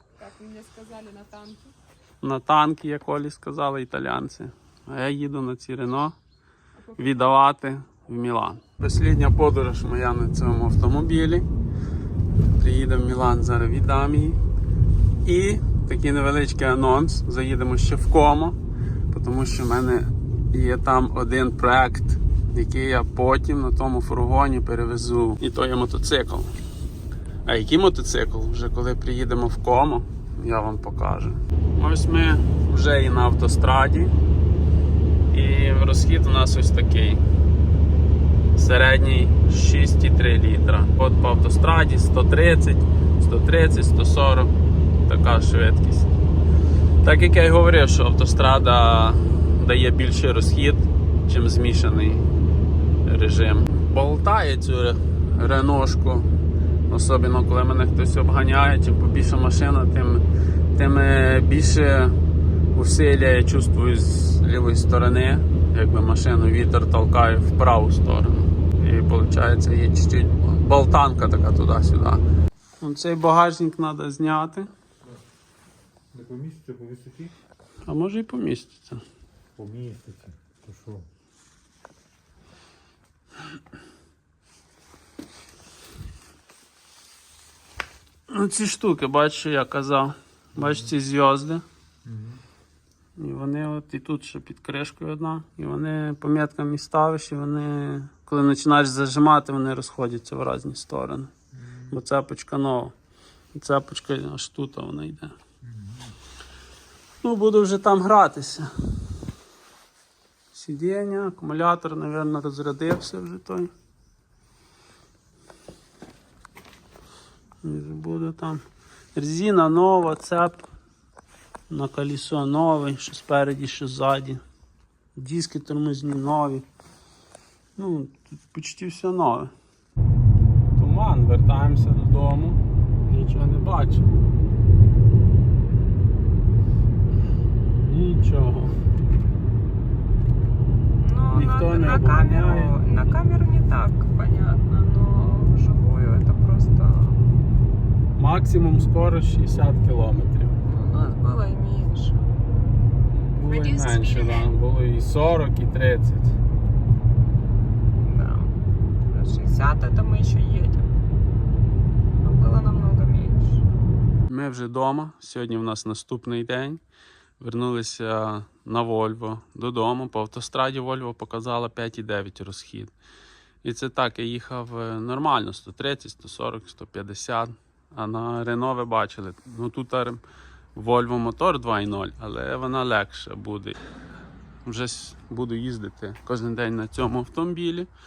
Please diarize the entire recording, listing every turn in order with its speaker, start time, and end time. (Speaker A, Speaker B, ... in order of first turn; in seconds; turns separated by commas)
Speaker A: 0.2-1.6, Speaker B: 2.2-6.2, Speaker B: 7.0-11.5, Speaker B: 12.6-14.4, Speaker B: 15.2-18.6, Speaker B: 19.1-26.5, Speaker B: 27.4-34.1, Speaker B: 35.3-37.2, Speaker B: 38.5-44.5, Speaker B: 45.0-46.1, Speaker B: 47.0-52.3, Speaker B: 53.0-56.3, Speaker B: 56.9-60.2, Speaker B: 60.8-62.1, Speaker B: 62.8-72.2, Speaker B: 72.8-74.7, Speaker C: 76.1-77.3, Speaker B: 77.8-79.0, Speaker C: 79.6-81.1, Speaker B: 88.3-91.6, Speaker C: 92.1-92.4, Speaker B: 93.2-101.3, Speaker B: 101.9-102.9, Speaker B: 103.5-105.3, Speaker C: 105.7-106.1, Speaker B: 107.2-108.7, Speaker B: 110.5-113.7, Speaker B: 117.6-118.6, Speaker B: 119.2-120.7, Speaker B: 121.7-124.4, Speaker B: 125.2-126.7, Speaker B: 127.8-129.5, Speaker B: 130.8-134.1, Speaker B: 137.8-138.8, Speaker A: 141.0-147.2, Speaker B: 141.3-142.8, Speaker B: 148.2-150.6, Speaker A: 150.7-152.2, Speaker B: 153.1-156.4, Speaker A: 153.5-154.5, Speaker A: 158.0-158.5, Speaker A: 159.0-160.9, Speaker A: 162.2-163.6, Speaker B: 164.3-166.8, Speaker B: 167.4-172.9, Speaker B: 173.6-180.2, Speaker B: 180.8-183.8, Speaker B: 184.7-187.9